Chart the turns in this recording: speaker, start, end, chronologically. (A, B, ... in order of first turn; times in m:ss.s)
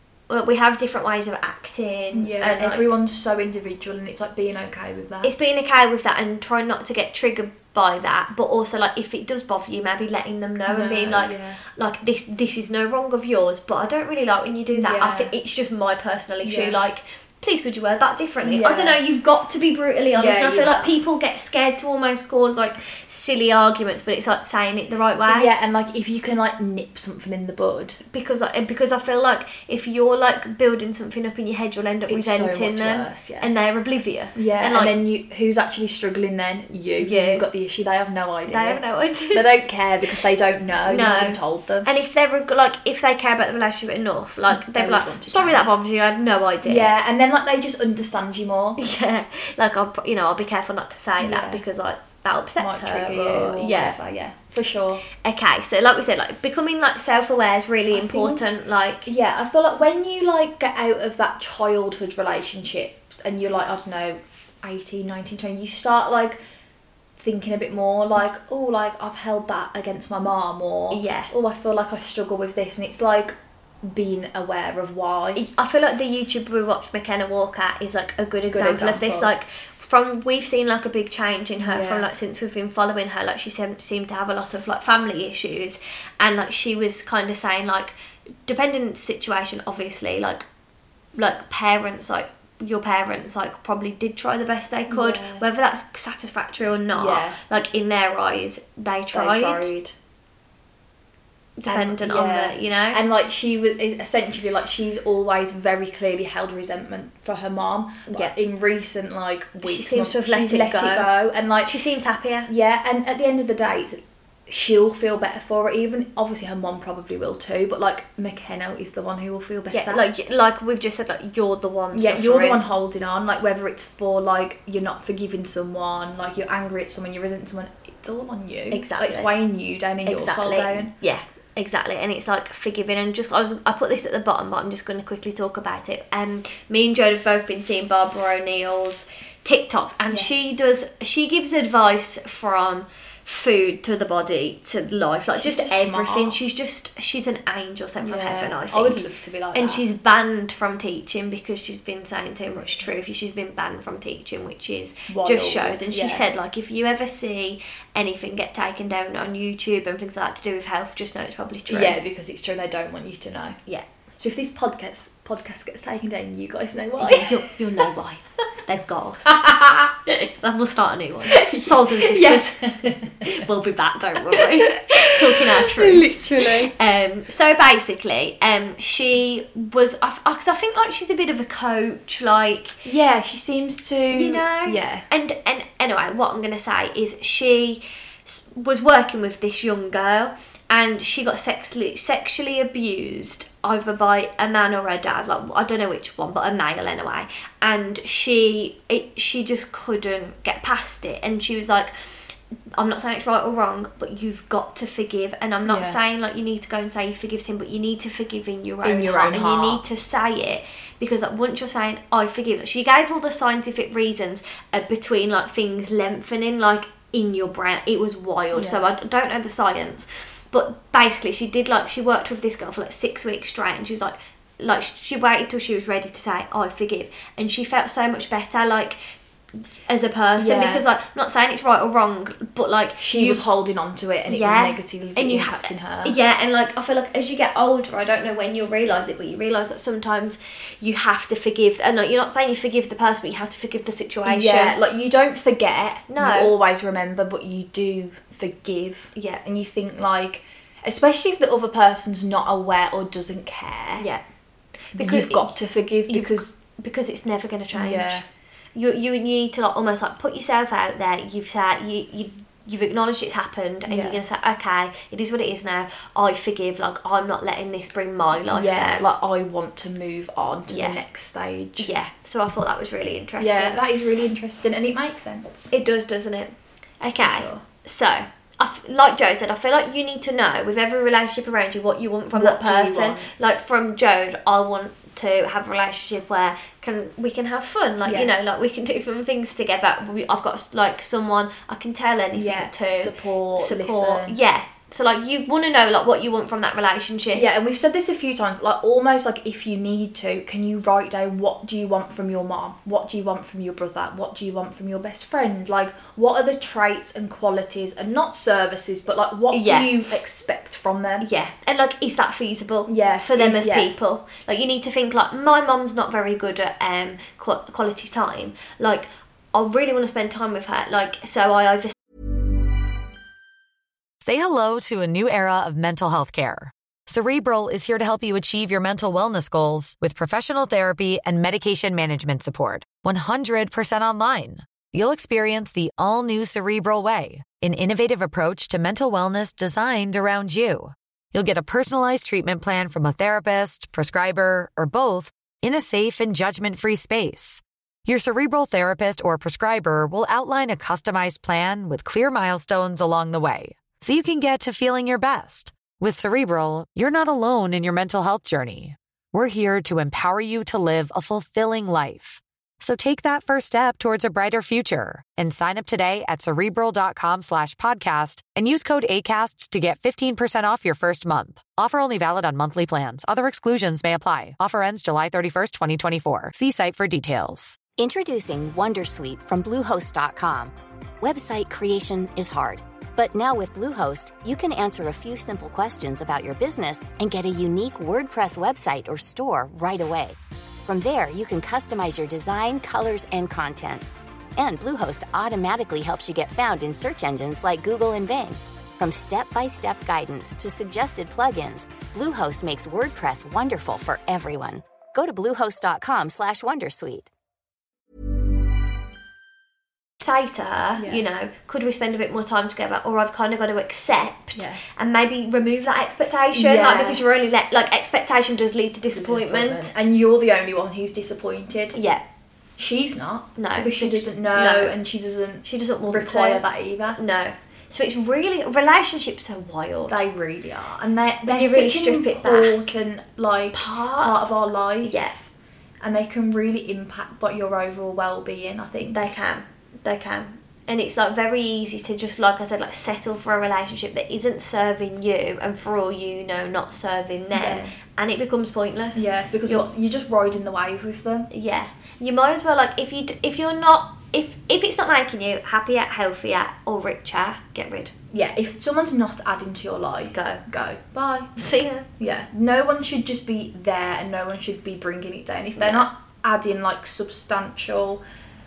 0:00.3-0:02.8 A
0:02.1-0:05.3 B
0:05.2-0:25.5 A
0:10.6-0:11.6 B
0:14.7-0:15.3 B
0:16.4-0:16.8 B
0:18.4-0:19.0 B
0:20.1-0:21.0 B
0:25.3-0:28.0 B
0:28.1-0:34.9 A
0:32.1-0:33.5 B
0:34.3-0:41.9 B
0:37.0-0:37.4 A
0:38.5-0:39.5 A
0:40.8-0:46.9 A
0:44.5-0:45.7 B
0:46.6-0:48.8 B
0:48.8-0:54.0 A
0:51.2-0:51.6 B
0:52.6-0:55.0 B
0:55.2-0:59.1 A
0:57.9-0:58.4 B
0:59.0-1:06.4 B
1:07.2-1:15.4 B
1:10.9-1:11.3 A
1:15.4-1:27.9 A
1:18.5-1:19.3 B
1:21.6-1:22.1 B
1:28.4-1:30.4 A
1:31.1-1:39.7 A
1:34.9-1:35.4 B
1:36.9-1:37.4 B
1:39.1-1:39.9 B
1:41.6-1:43.0 A
1:41.6-1:51.8 B
1:49.6-1:51.1 A
1:51.6-1:52.5 A
1:52.5-2:00.0 B
1:59.7-2:02.6 A
2:01.9-2:10.9 B
2:08.7-2:09.3 A
2:10.0-2:29.0 A
2:20.1-2:20.6 B
2:25.3-2:26.4 B
2:28.0-2:29.8 B
2:29.5-2:42.0 A
2:35.1-2:36.2 B
2:41.7-2:43.6 B
2:44.2-2:47.5 B
2:47.0-2:49.5 A
2:49.3-2:49.9 B
2:50.1-3:02.8 A
2:51.3-2:53.4 B
2:54.2-2:56.7 B
3:02.8-3:05.0 B
3:04.1-3:21.9 A
3:22.8-3:49.0 A
3:25.6-3:26.0 B
3:28.8-3:29.8 B
3:38.5-3:38.8 B
3:49.9-3:53.4 A
3:50.4-3:50.8 B
3:53.0-3:56.2 B
3:54.3-4:04.8 A
4:04.2-4:14.0 B
4:06.1-4:06.5 A
4:09.1-4:09.4 A
4:14.0-4:14.2 A
4:14.9-4:15.5 A
4:14.9-4:16.5 B
4:16.1-4:18.2 A
4:17.7-4:18.2 B
4:18.7-4:29.0 A
4:23.9-4:24.2 B
4:28.5-4:31.9 B
4:30.7-4:31.0 A
4:31.8-4:33.8 A
4:33.4-4:35.7 B
4:35.7-4:57.4 A
4:37.2-4:37.6 B
4:42.3-4:43.3 B
4:48.0-4:48.3 B
4:52.3-4:54.4 B
4:57.3-5:11.2 B
5:09.5-5:10.0 A
5:11.2-5:21.9 A
5:12.8-5:13.9 B
5:24.2-6:17.8 C
6:18.0-6:34.0 D
6:34.6-6:47.3 D
6:50.2-6:59.9 A
6:51.0-6:51.2 B
6:54.5-6:54.8 B
6:56.5-6:57.2 B
6:59.1-7:02.0 B
7:01.9-7:02.2 A
7:02.8-7:07.2 B
7:03.6-7:05.0 A
7:05.6-7:06.6 A
7:07.1-7:10.2 A
7:10.1-7:15.5 B
7:11.5-7:12.9 A
7:13.7-7:14.4 A
7:15.0-7:15.4 A
7:16.0-7:19.3 B
7:19.0-7:29.9 A
7:27.5-7:28.0 B
7:29.1-7:31.5 B
7:31.5-7:38.1 A
7:38.3-7:41.5 B
7:40.3-7:40.6 A
7:41.6-7:42.1 A
7:42.2-7:48.2 B
7:45.8-7:46.1 A